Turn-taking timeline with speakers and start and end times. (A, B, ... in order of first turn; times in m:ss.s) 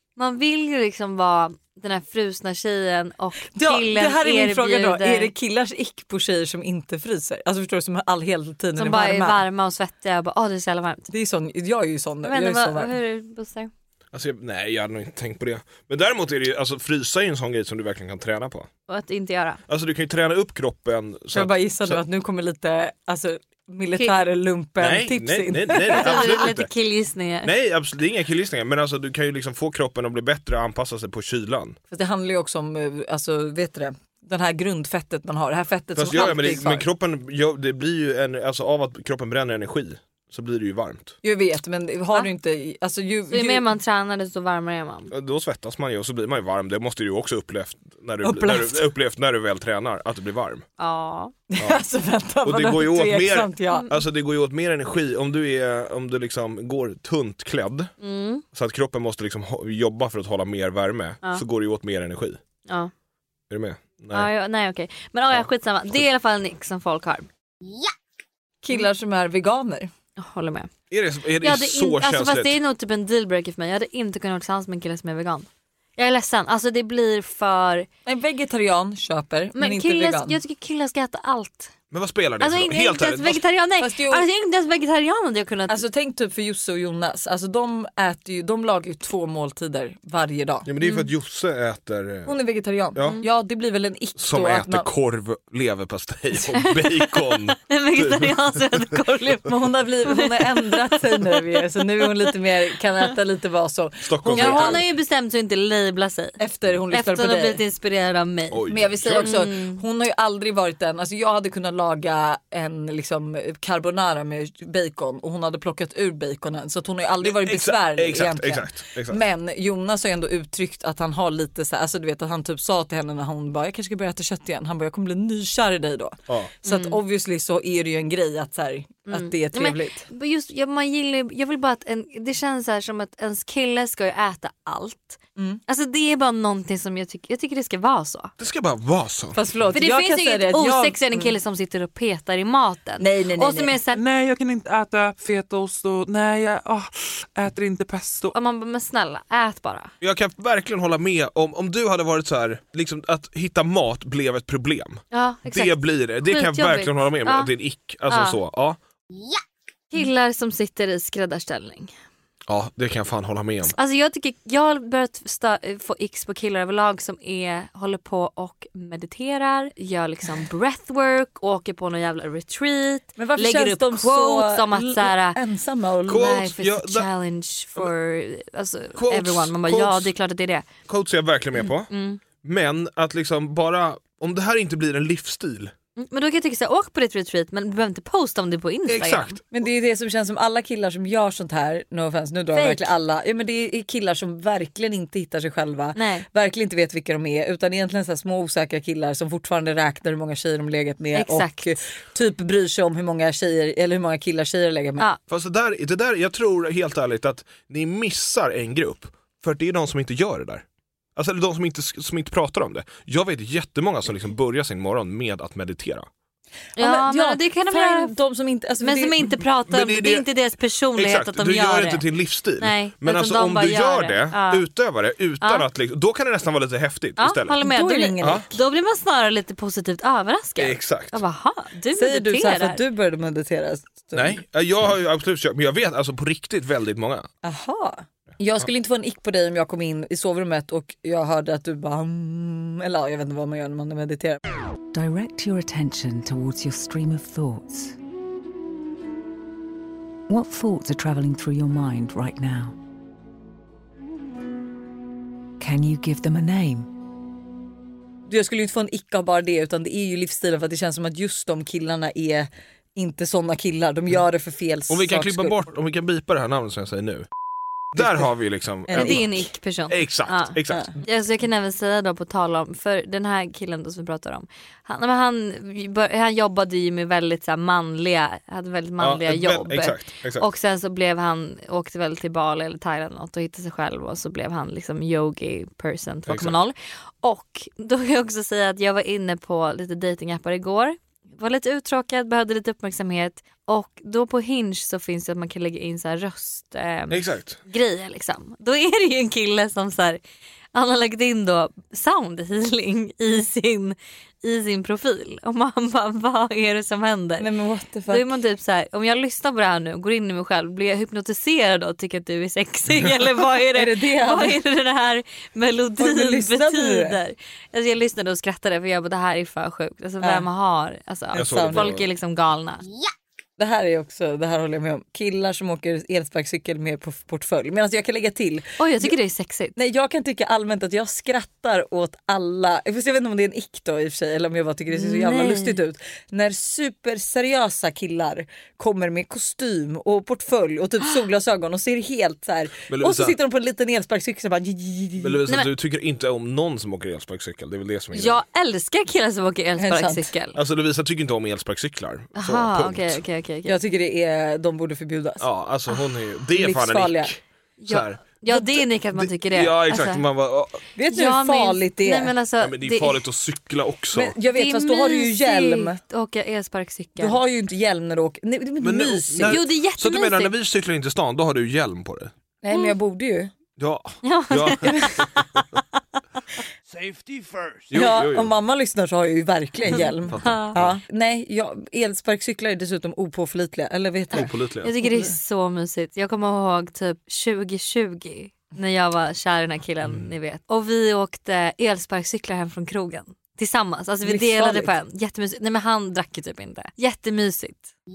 0:00.2-0:05.3 A
0:03.5-0:09.4 B
0:08.8-0:11.1 A
0:11.1-0:12.9 B
0:12.2-0:13.7 A
0:14.1-0:18.7 C
0:18.9-0:19.6 A
0:19.7-0:22.0 C
0:21.3-0:26.4 B
0:24.8-0:26.7 C
0:25.8-0:27.5 A
0:27.4-0:31.8 C
0:31.9-0:36.9 B
0:36.0-0:41.2 C
0:41.2-0:43.7 B
0:43.3-0:45.1 A
0:45.1-0:50.6 C
0:48.2-0:48.8 B
0:50.8-0:51.3 A
0:51.5-0:53.9 B
0:52.4-0:57.9 C
0:58.0-0:58.4 A
0:58.5-1:02.4 C
1:02.7-1:02.9 A
1:03.5-1:04.3 C
1:04.1-1:07.3 A
1:08.6-1:09.9 B
1:10.2-1:10.7 A
1:10.9-1:12.6 C
1:11.4-1:17.9 A
1:18.1-1:20.4 B
1:19.6-1:21.7 A
1:21.9-1:23.4 C
1:22.4-1:25.8 A
1:23.8-1:24.2 B
1:25.7-1:30.7 B
1:30.7-1:32.4 C
1:30.8-1:31.1 A
1:32.3-1:34.9 B
1:32.9-1:33.2 C
1:34.2-1:38.9 C
1:36.5-1:39.5 A
1:39.4-1:44.8 B
1:40.1-1:41.6 A
1:44.0-1:44.8 C
1:44.4-1:46.4 A
1:46.4-1:47.6 B
1:46.9-1:49.8 A
1:48.5-1:49.4 C
1:48.7-2:10.1 B
1:57.2-1:59.2 C
2:06.6-2:07.0 A
2:09.1-2:18.3 A
2:18.4-2:19.4 C
2:19.4-2:21.3 B
2:19.7-2:24.0 A
2:23.0-2:23.8 B
2:23.9-2:28.3 D
2:28.3-2:29.9 A
2:30.0-2:38.8 C
2:35.1-2:37.5 A
2:38.1-2:38.4 A
2:39.9-2:41.9 A
2:42.5-2:43.8 C
2:43.7-2:55.4 A
2:53.2-2:56.4 B
2:56.1-2:57.1 C
2:56.1-3:00.7 A
2:59.0-3:00.1 C
3:00.9-3:01.9 C
3:01.9-3:02.2 A
3:02.4-3:05.7 C
3:06.0-3:09.4 A
3:08.9-3:09.4 C
3:09.5-3:25.1 B
3:12.5-3:12.9 A
3:16.0-3:16.2 A
3:21.2-3:21.7 A
3:25.3-3:30.6 C
3:31.2-3:36.1 C
3:36.8-3:38.1 A
3:36.8-3:39.4 B
3:38.8-3:42.0 A
3:39.7-3:40.3 C
3:41.0-3:47.6 C
3:42.6-3:44.6 A
3:45.4-3:45.7 A
3:47.2-3:52.8 A
3:47.6-3:48.5 B
3:48.2-3:48.5 C
3:50.6-3:51.2 C
3:52.0-3:54.4 B
3:54.1-3:57.3 C
3:57.4-4:04.4 B
4:04.9-4:07.9 E
4:10.3-4:12.8 E
4:15.6-4:16.9 E
4:18.3-4:25.6 B
4:24.9-4:27.3 C
4:28.0-4:30.9 C
4:28.9-4:29.3 B
4:28.9-5:00.2 A
4:39.0-4:40.5 C
4:46.3-4:46.6 C
4:57.1-4:57.6 C
5:00.7-5:07.5 A
5:07.4-5:08.3 B
5:08.1-5:22.8 A
5:13.7-5:14.6 B
5:16.0-5:17.2 B
5:21.3-5:21.9 B
5:21.4-5:22.1 C
5:23.6-5:29.1 B
5:28.8-5:29.8 A
5:29.8-5:45.4 B
5:34.9-5:35.8 A
5:42.9-5:43.4 C
5:45.2-5:48.4 C
5:48.1-5:50.6 A
5:49.8-5:50.3 B
5:50.6-5:53.2 C
5:52.4-5:53.8 A
5:53.7-5:55.4 B
5:55.4-5:58.2 C
5:56.5-5:57.3 B
5:57.8-6:00.2 A
5:59.2-6:00.8 C
6:01.0-6:02.3 B
6:01.1-6:03.2 A
6:02.6-6:04.3 C
6:04.1-6:06.0 B
6:04.5-6:07.4 A
6:07.2-6:09.6 B
6:08.8-6:12.3 C
6:09.4-6:10.5 A
6:12.6-6:13.5 B
6:13.8-6:15.3 C
6:14.2-6:15.3 A
6:16.9-6:17.9 D
6:17.9-6:18.5 C
6:17.9-6:24.5 B
6:19.9-6:21.0 C
6:19.9-6:20.8 A
6:24.3-6:24.9 C
6:24.8-6:37.9 A
6:25.0-6:25.3 B
6:34.2-6:34.9 B